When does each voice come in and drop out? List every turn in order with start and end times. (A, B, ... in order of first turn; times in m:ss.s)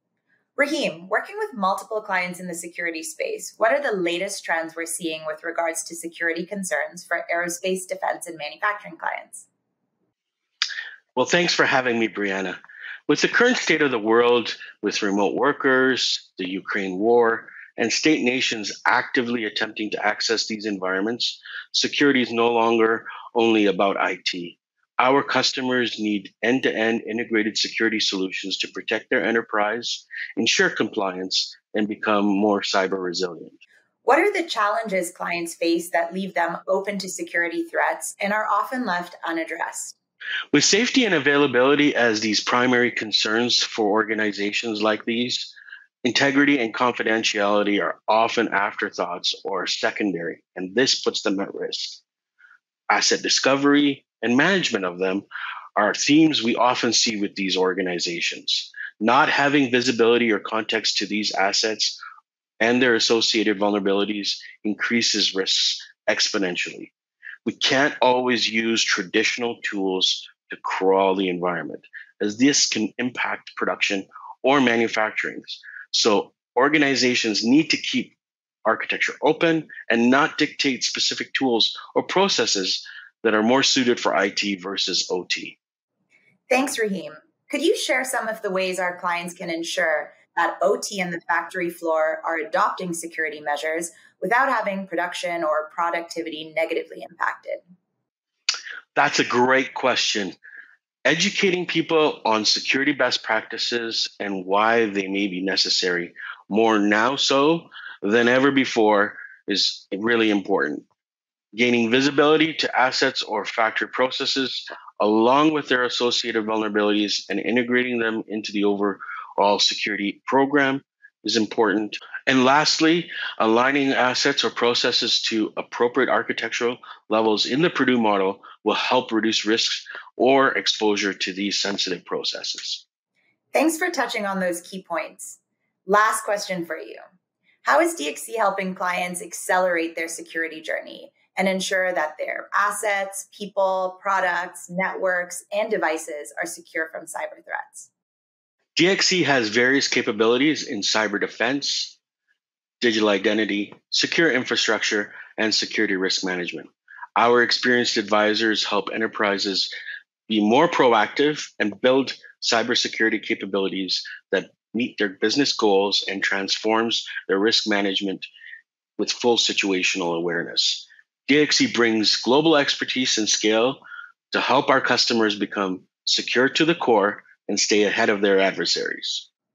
0:00.6-0:09.5 A
0:11.2-0:33.6 B
0:34.0-0:40.0 A
0:40.5-0:52.0 B
0:52.9-0:55.3 B
0:55.8-1:02.0 B
1:02.6-1:06.9 B
1:07.5-1:25.6 B
1:26.5-1:37.6 A
1:39.0-1:40.4 B
1:41.1-1:50.8 B
1:51.5-2:12.8 B
2:13.5-2:17.0 A
2:17.6-2:27.9 A
2:28.8-2:32.0 B
2:32.8-2:39.7 B
2:40.3-2:48.3 B
2:49.0-2:53.8 B
2:54.3-2:59.3 B